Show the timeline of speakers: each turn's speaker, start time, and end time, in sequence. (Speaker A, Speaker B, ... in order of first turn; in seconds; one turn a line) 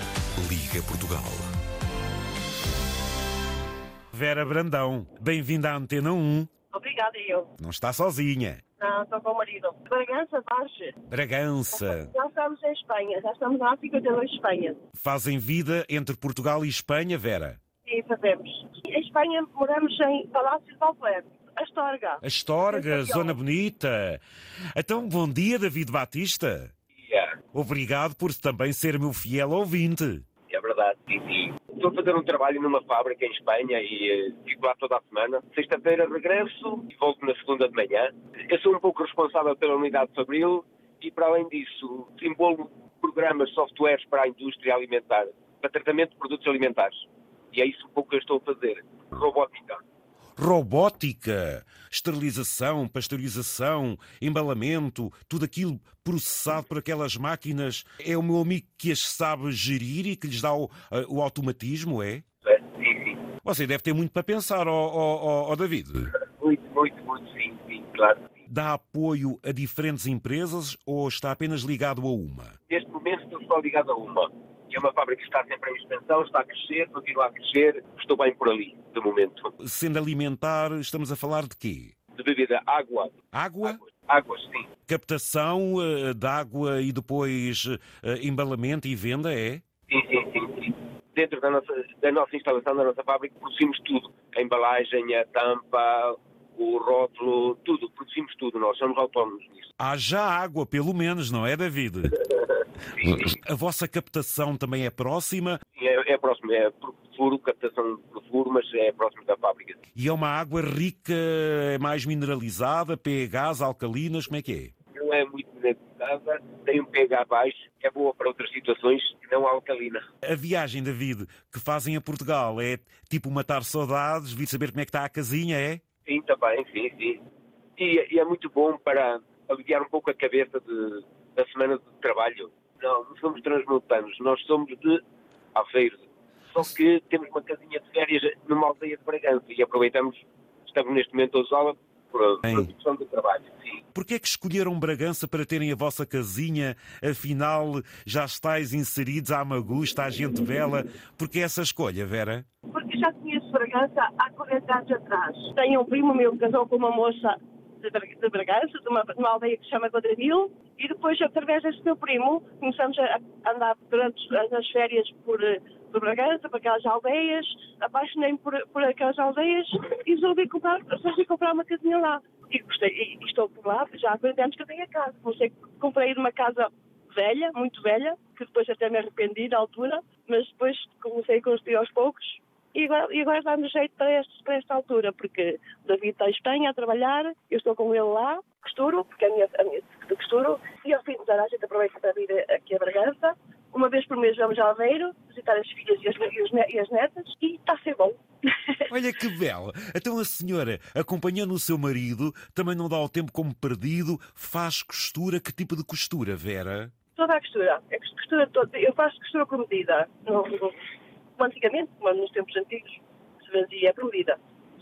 Speaker A: 0.4-1.5
Speaker A: 4.1-6.5
Speaker B: 6.7-7.5
Speaker A: 7.6-8.6
Speaker B: 8.8-10.9
Speaker A: 11.1-12.1
Speaker B: 11.7-14.8
Speaker A: 15.0-17.6
Speaker B: 17.8-23.4
Speaker A: 22.2-24.2
Speaker A: 24.8-26.7
Speaker C: 27.0-27.4
Speaker A: 27.5-30.2
Speaker C: 30.5-49.8
Speaker A: 50.4-62.2
Speaker C: 62.4-63.2
Speaker A: 63.4-66.1
Speaker C: 66.4-68.3
Speaker A: 68.5-72.5
Speaker C: 72.7-79.5
Speaker A: 79.6-81.9
Speaker C: 82.2-84.7
Speaker A: 83.3-83.8
Speaker A: 84.9-89.6
Speaker C: 89.9-99.7
Speaker A: 99.8-102.2
Speaker C: 103.0-103.2
Speaker A: 103.0-105.6
Speaker C: 105.8-109.8
Speaker A: 109.9-114.7
Speaker C: 114.9-120.0
Speaker A: 120.2-125.8
Speaker C: 126.0-127.2
Speaker C: 127.8-135.0
Speaker C: 135.5-143.8
Speaker A: 142.4-142.7
Speaker A: 143.9-152.4
Speaker B: 152.7-198.9
Speaker A: 198.9-206.9
Speaker B: 207.2-210.8
Speaker B: 211.4-214.4